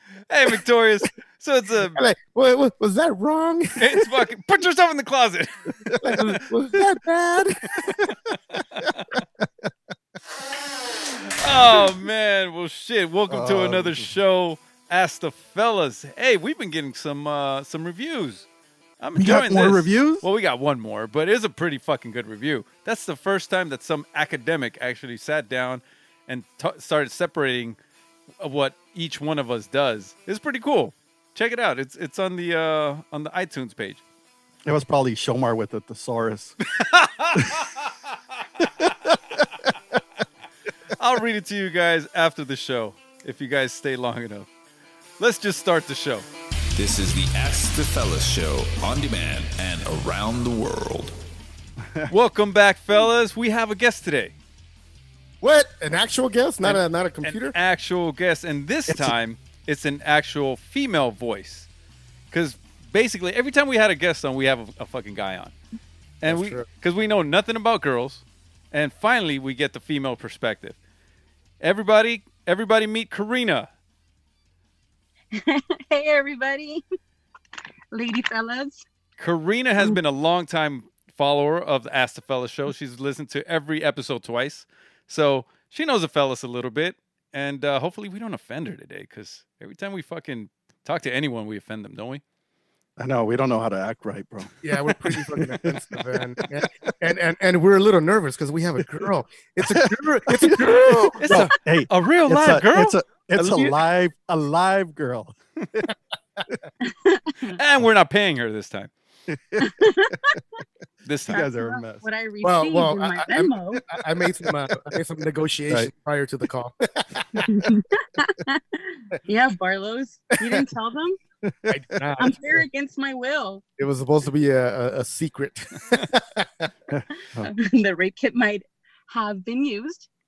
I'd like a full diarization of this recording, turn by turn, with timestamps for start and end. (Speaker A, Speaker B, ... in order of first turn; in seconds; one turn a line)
Speaker A: 0.3-2.0
Speaker B: 1.9-4.1
Speaker A: 3.8-5.7
Speaker C: 5.9-6.2
Speaker B: 6.0-7.9
Speaker A: 11.4-18.4
Speaker C: 13.3-14.1
Speaker A: 19.0-27.8
Speaker C: 19.1-20.2
Speaker A: 28.4-34.0
Speaker C: 34.6-36.5
Speaker A: 36.8-37.7
Speaker C: 37.4-37.7
Speaker C: 38.6-39.7
Speaker A: 41.0-44.5
Speaker A: 45.2-46.3
Speaker D: 46.8-51.1
Speaker C: 51.8-52.1
Speaker A: 52.1-54.3
Speaker B: 55.4-57.5
Speaker A: 56.6-61.7
Speaker C: 58.9-59.1
Speaker A: 62.3-65.5
Speaker A: 66.2-70.8
Speaker B: 66.2-66.7
Speaker A: 71.6-73.7
Speaker E: 75.3-76.8
Speaker E: 77.9-78.8
Speaker A: 79.2-92.2
Speaker C: 93.0-96.6
Speaker B: 94.6-101.5
Speaker C: 99.7-105.9
Speaker A: 101.9-103.0
Speaker B: 103.3-103.8
Speaker E: 106.8-107.6
Speaker A: 107.5-108.9
Speaker C: 109.3-109.8
Speaker E: 109.6-110.3
Speaker A: 111.0-111.4
Speaker C: 111.2-112.0
Speaker E: 111.3-113.8
Speaker B: 112.4-117.7
Speaker E: 117.4-121.2
Speaker C: 121.4-121.7
Speaker B: 121.7-122.7
Speaker E: 122.2-123.6
Speaker B: 123.8-126.7
Speaker C: 126.9-127.5
Speaker E: 127.4-130.1